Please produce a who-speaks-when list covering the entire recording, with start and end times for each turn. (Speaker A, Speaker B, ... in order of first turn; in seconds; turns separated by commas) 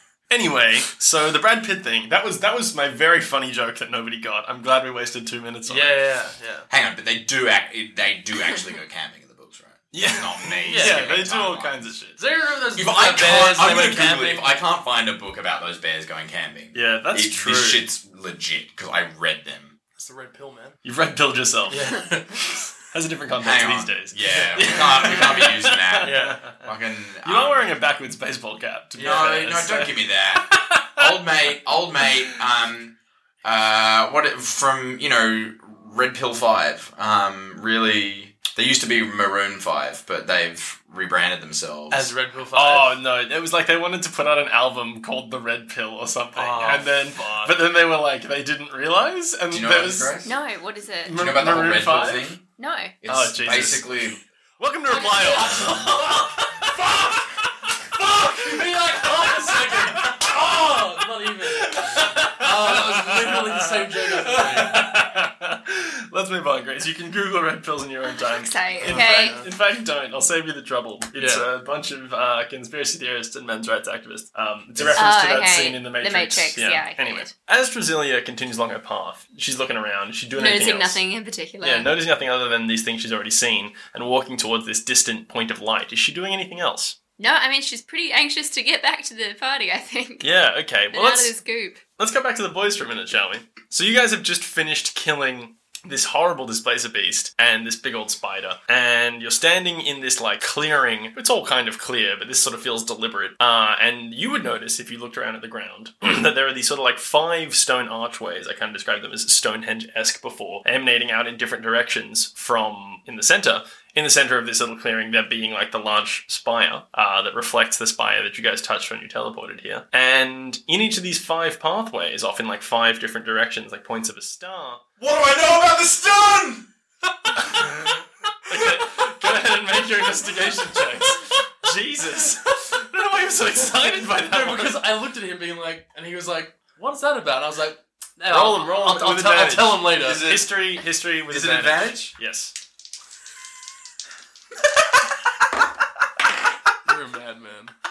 Speaker A: 0.3-6.0, Speaker B: 5.7-6.7, Speaker C: 6.7-11.9, Speaker A: 9.9-12.2, Speaker B: 10.6-11.2, Speaker B: 12.2-14.5, Speaker C: 12.7-19.8, Speaker A: 16.7-17.9, Speaker B: 20.0-20.8, Speaker A: 20.9-26.6, Speaker B: 21.7-22.5, Speaker C: 23.4-27.8, Speaker B: 24.3-25.5, Speaker B: 26.0-26.5, Speaker A: 27.2-31.1, Speaker B: 28.9-29.4, Speaker C: 29.0-42.1, Speaker B: 41.9-43.0, Speaker A: 42.5-50.2, Speaker B: 46.4-47.6, Speaker C: 49.5-50.3, Speaker D: 50.2-51.2, Speaker A: 51.0-52.3, Speaker C: 51.1-52.4, Speaker D: 52.6-52.9, Speaker C: 53.0-54.2, Speaker A: 53.0-60.4, Speaker D: 54.9-55.8, Speaker B: 55.7-56.2, Speaker B: 58.0-65.0, Speaker A: 61.0-81.0, Speaker D: 68.2-69.4, Speaker B: 68.8-69.5, Speaker B: 71.2-71.5, Speaker C: 74.8-75.0, Speaker D: 75.0-77.3, Speaker D: 80.4-81.9, Speaker A: 81.6-87.0, Speaker D: 87.2-90.3, Speaker A: 90.2-91.3, Speaker D: 90.9-91.8, Speaker A: 92.0-124.8, Speaker C: 125.0-126.7, Speaker C: 127.3-127.5, Speaker A: 127.4-127.9, Speaker A: 128.5-134.8, Speaker B: 133.6-140.3, Speaker A: 138.3-142.5, Speaker C: 140.0-140.5, Speaker C: 141.3-142.1, Speaker B: 146.8-147.7